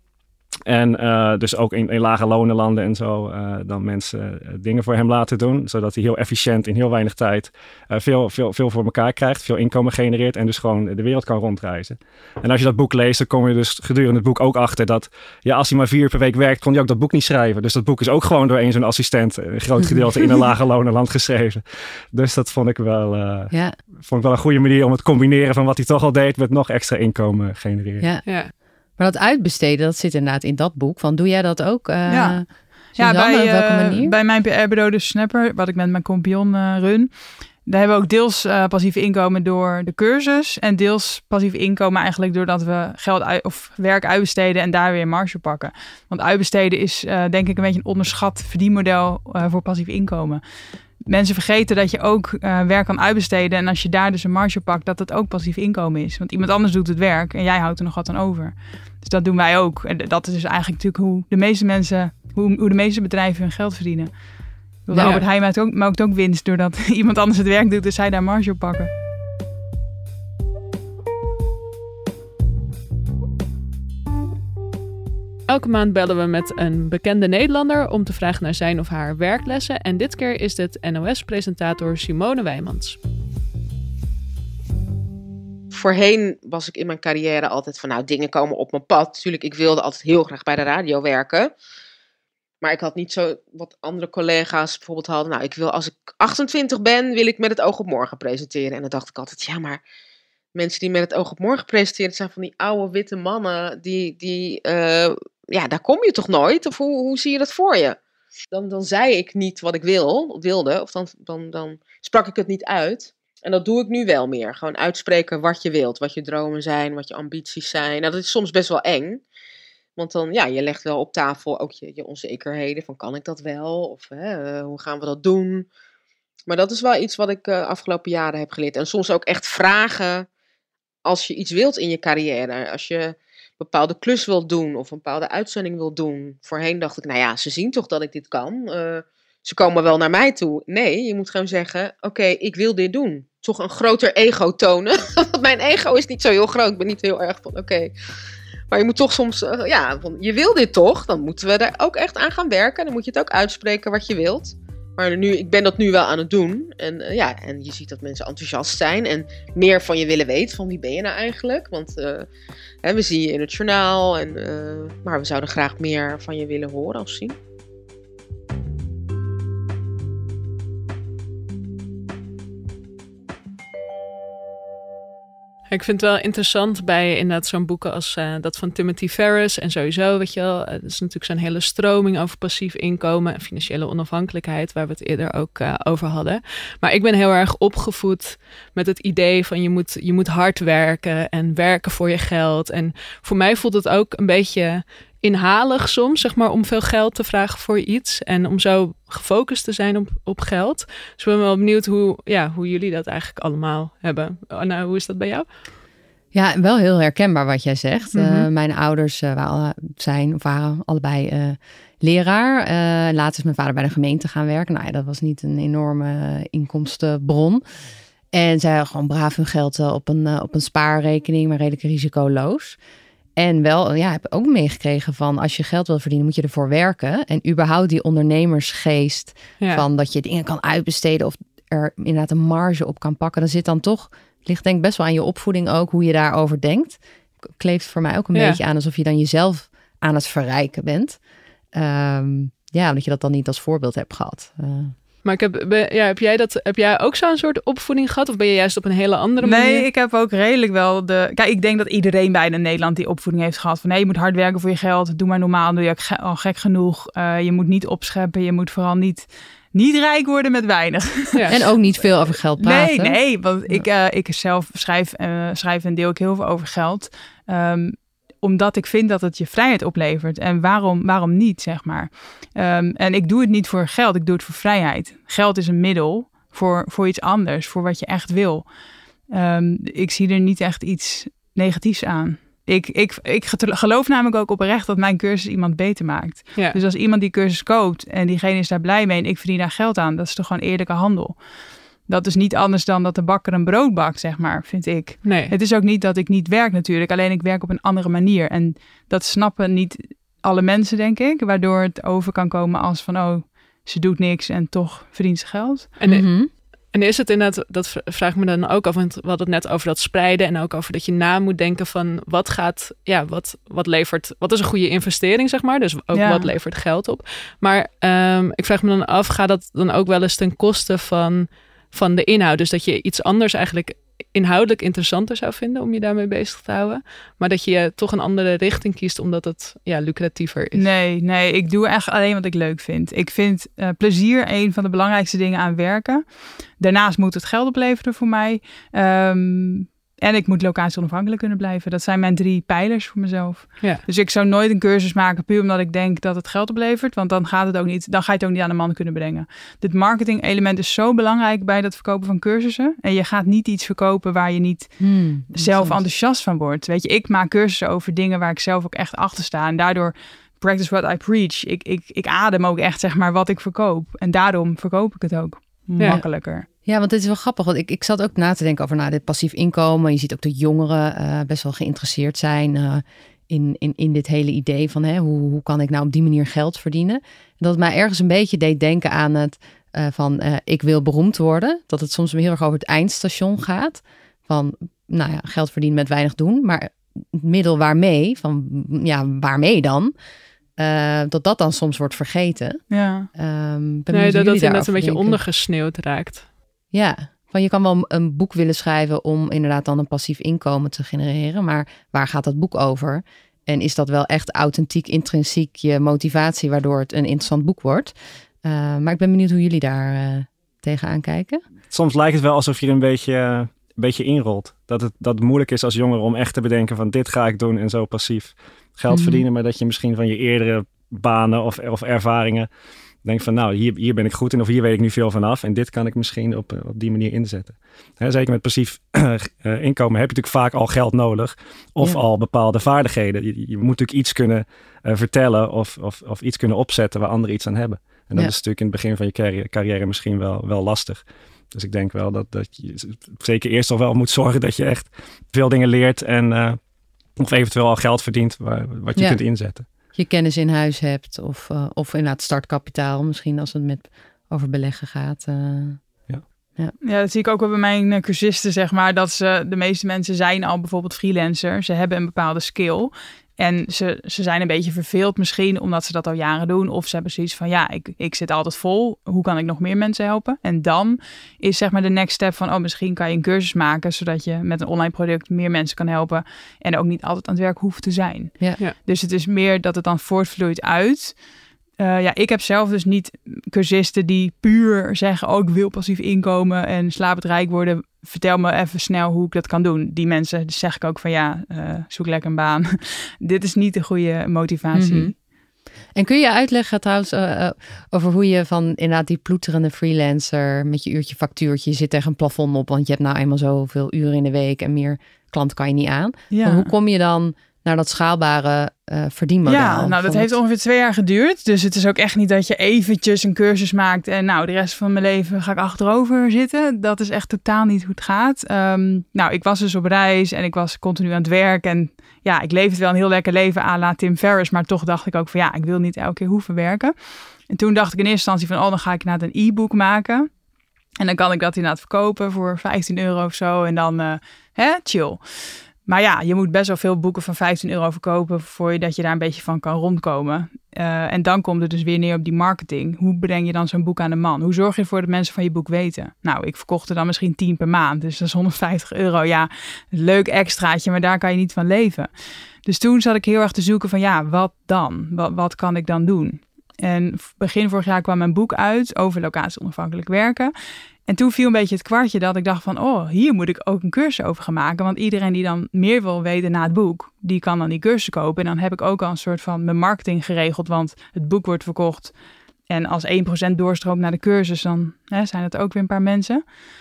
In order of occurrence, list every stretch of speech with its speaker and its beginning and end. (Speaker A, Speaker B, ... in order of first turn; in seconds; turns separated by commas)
Speaker A: 0.7-21.6, Speaker B: 19.8-20.3, Speaker A: 22.1-23.5, Speaker B: 23.5-23.8, Speaker A: 24.0-28.1, Speaker B: 28.0-28.2, Speaker C: 28.2-28.5, Speaker B: 29.0-34.1, Speaker D: 32.1-32.4, Speaker D: 32.9-37.1, Speaker D: 37.6-50.4, Speaker D: 51.0-64.2, Speaker D: 64.8-68.9, Speaker B: 64.9-65.2, Speaker C: 65.0-65.2, Speaker C: 75.5-83.0, Speaker E: 85.7-91.5, Speaker E: 92.6-99.8, Speaker E: 100.5-108.0, Speaker E: 108.5-119.2, Speaker E: 120.0-125.7, Speaker E: 126.5-130.2, Speaker E: 131.0-147.9, Speaker E: 148.7-162.3, Speaker E: 162.8-167.3, Speaker C: 175.7-205.4, Speaker B: 206.3-217.6, Speaker C: 208.1-208.5, Speaker B: 218.3-222.8, Speaker B: 223.4-241.2, Speaker C: 238.3-238.6, Speaker B: 241.7-244.9, Speaker C: 245.2-249.9, Speaker D: 249.4-261.7, Speaker B: 261.5-263.8, Speaker D: 262.6-278.7, Speaker D: 279.3-291.4, Speaker D: 292.1-305.9, Speaker C: 295.2-295.5, Speaker C: 306.0-306.3, Speaker B: 306.1-306.5, Speaker C: 306.9-330.9, Speaker D: 316.1-316.5, Speaker D: 330.7-336.2, Speaker D: 336.8-354.9, Speaker B: 355.0-356.0, Speaker D: 355.5-366.6, Speaker B: 366.8-390.1, Speaker B: 390.8-395.4, Speaker D: 392.9-393.3, Speaker C: 394.1-396.4, Speaker B: 396.9-411.6, Speaker A: 411.9-422.7, Speaker B: 419.1-419.4, Speaker A: 423.2-441.2, Speaker A: 441.7-446.8, Speaker A: 447.4-449.9, Speaker B: 450.1-456.0, Speaker D: 457.0-481.4, Speaker D: 482.0-495.3, Speaker B: 494.9-495.3, Speaker B: 496.1-510.5, Speaker D: 506.5-506.9, Speaker D: 509.6-527.1, Speaker D: 527.7-530.5, Speaker D: 531.2-535.4, Speaker D: 536.0-552.3, Speaker D: 552.8-560.7, Speaker D: 561.3-572.3, Speaker D: 572.9-576.6